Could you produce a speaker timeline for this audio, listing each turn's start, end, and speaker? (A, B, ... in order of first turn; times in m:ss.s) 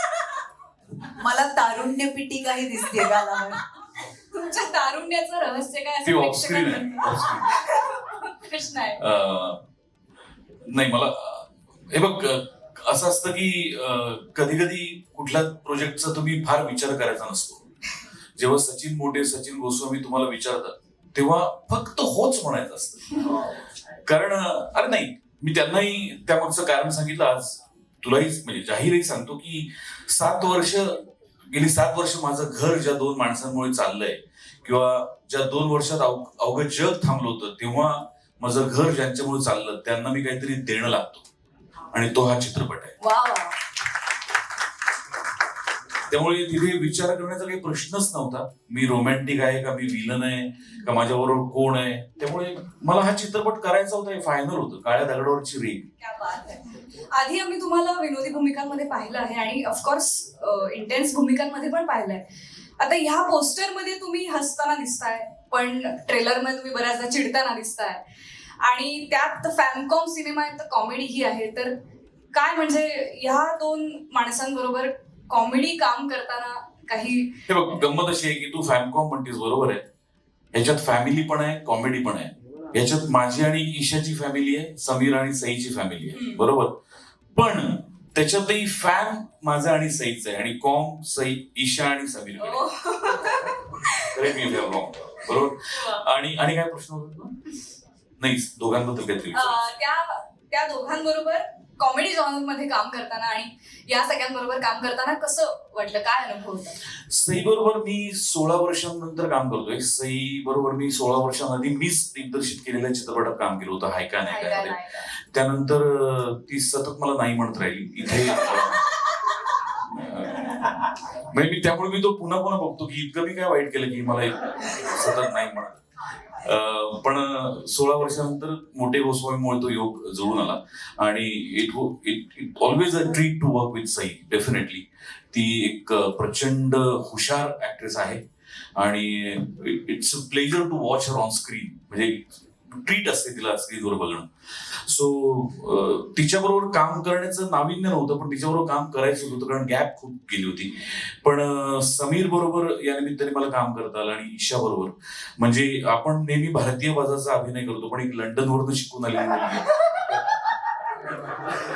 0:01.2-0:03.6 A
0:04.3-0:09.0 B
0:06.0-0:07.5 C
0:09.0-0:09.6 C
0:10.7-0:17.7 C
0:18.4-0:23.5 C
0:24.1-0:41.2 C
0:41.9-0:43.0 C
0:43.0-0:43.5 B
0:46.1-0:55.9 C
0:56.2-0:56.6 B
0:57.1-1:02.2 B
1:02.8-1:08.0 B
1:08.6-1:11.7 B
1:12.3-1:17.4 B
1:17.5-1:19.8 C
1:20.5-1:26.8 C
1:26.1-1:26.4 B
1:27.3-1:32.7 C
1:32.4-1:34.3 B
1:34.0-1:37.4 C
1:38.2-1:39.6 C
1:39.4-1:46.8 B
1:47.1-1:58.9 C
2:00.0-2:05.8 C
2:06.4-2:18.2 C
2:18.8-2:24.3 C
2:24.9-2:40.2 C